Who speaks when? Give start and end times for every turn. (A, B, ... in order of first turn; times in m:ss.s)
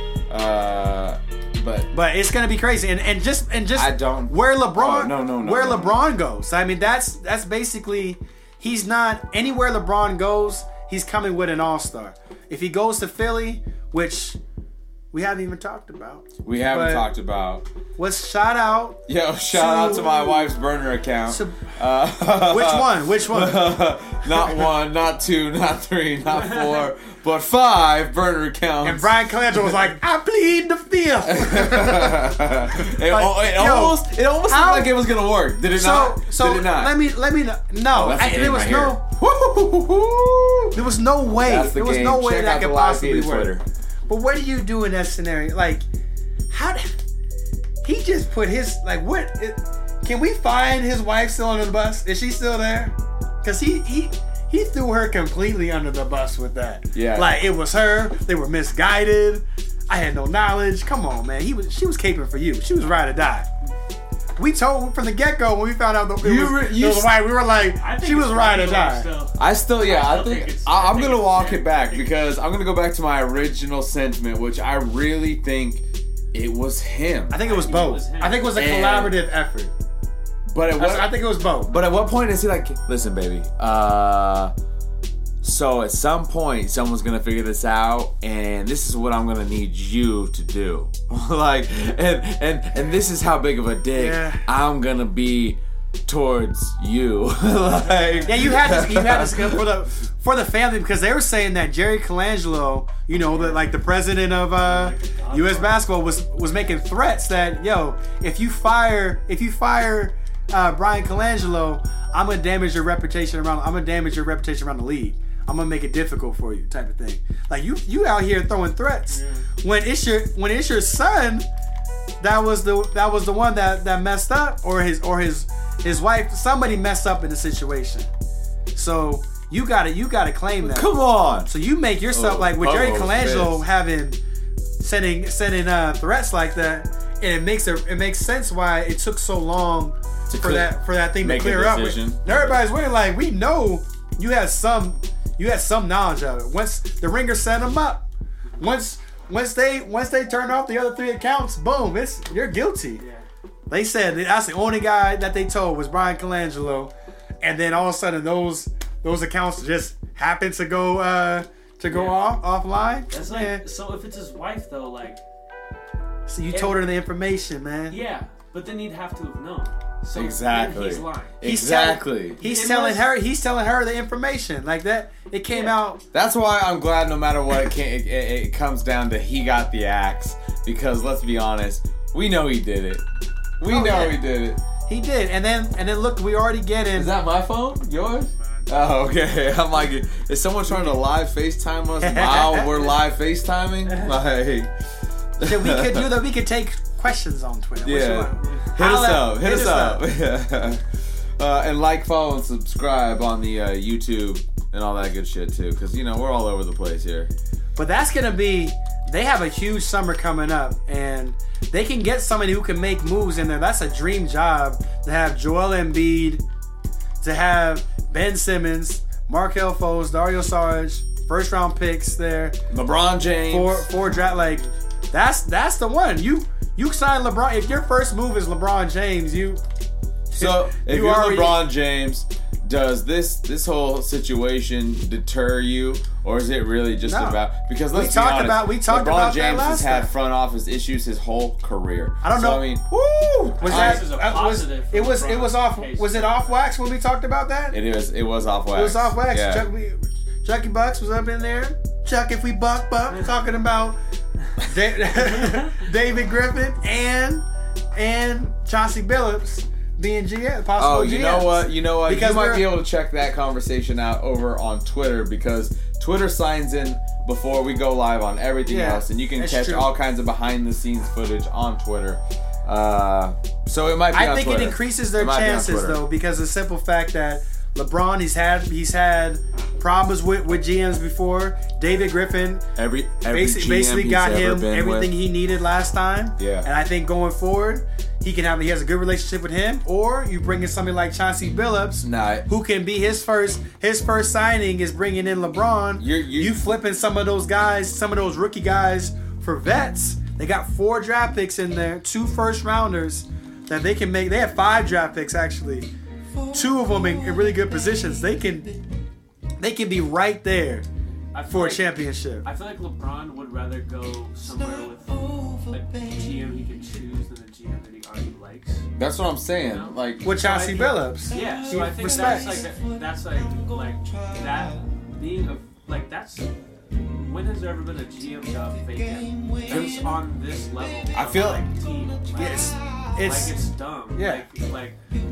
0:00.3-0:01.9 A
0:01.9-0:14.4 B
0:03.8-0:06.0 A
0:15.1-0:17.1 B
0:16.4-0:17.6 A
0:18.0-0:20.5 B
0:19.1-0:29.2 A
0:21.3-0:21.7 B
0:22.4-0:23.8 B
0:28.8-0:34.9 B
0:31.3-0:36.9 A
0:35.7-0:39.0 B
0:37.9-0:40.8 A
0:40.7-0:43.6 B
0:41.4-0:43.6 A
0:44.1-0:45.9 B
0:46.5-0:47.0 B
0:47.8-1:03.5 B
0:56.9-0:57.4 A
1:04.4-1:09.1 B
1:06.2-1:07.2 A
1:07.6-1:11.8 C
1:09.4-1:17.4 A
1:17.3-1:19.7 B
1:17.4-1:18.6 C
1:18.5-1:19.2 A
1:20.5-1:24.5 A
1:20.8-1:21.7 B
1:25.4-1:39.6 A
1:34.0-1:34.4 B
1:37.7-1:38.6 C
1:38.2-2:01.4 B
1:43.2-1:43.7 C
1:44.6-1:45.8 C
1:59.1-1:59.4 C
2:02.2-2:08.1 B
2:08.7-2:14.2 B
2:10.6-2:11.5 A
2:12.1-2:13.6 A
2:14.8-2:28.0 B
2:20.3-2:22.6 A
2:28.6-2:33.0 B
2:33.0-2:33.2 C
2:33.7-2:43.6 B
2:41.9-2:42.2 C
2:43.1-2:45.2 C
2:46.3-2:48.0 B
2:46.5-2:46.8 C
2:47.9-2:51.4 C
2:50.1-2:52.4 A
2:51.4-2:56.0 B
2:52.4-2:53.1 C
2:56.1-3:03.0 A
3:03.6-3:04.6 A
3:03.7-3:04.2 B
3:04.8-3:07.1 B
3:06.9-3:14.7 A
3:08.3-3:08.7 C
3:12.0-3:12.7 B
3:13.9-3:14.2 C
3:15.4-3:16.1 A
3:15.4-3:20.0 B
3:17.8-3:20.8 A
3:18.4-3:18.7 C
3:21.4-3:27.3 A
3:27.8-3:36.4 B
3:37.2-3:42.6 B
3:42.7-3:43.9 A
3:43.5-3:49.6 B
3:44.1-3:44.7 C
3:50.3-3:51.6 B
3:50.3-4:04.0 A
3:57.0-3:57.4 B
3:57.9-4:00.1 B
4:02.2-4:02.7 B
4:03.6-4:06.6 C
4:03.6-4:07.8 B
4:07.7-4:09.6 A
4:08.7-4:14.0 B
4:14.6-4:17.4 B
4:15.3-4:15.7 C
4:17.9-4:22.8 B
4:20.8-4:36.0 A
4:28.7-4:29.9 B
4:34.1-4:42.6 B
4:42.8-4:45.1 A
4:43.2-5:05.9 B
4:46.4-4:46.7 A
4:52.0-4:52.5 A
4:56.0-4:56.6 A
5:06.5-5:08.7 B
5:09.6-5:10.8 B
5:11.3-5:18.9 C
5:11.5-5:12.4 B
5:19.0-5:20.2 A
5:19.6-5:26.5 C
5:20.2-5:22.6 B
5:27.0-5:35.0 C
5:31.1-5:31.7 A
5:32.4-5:33.5 B
5:34.1-5:34.4 B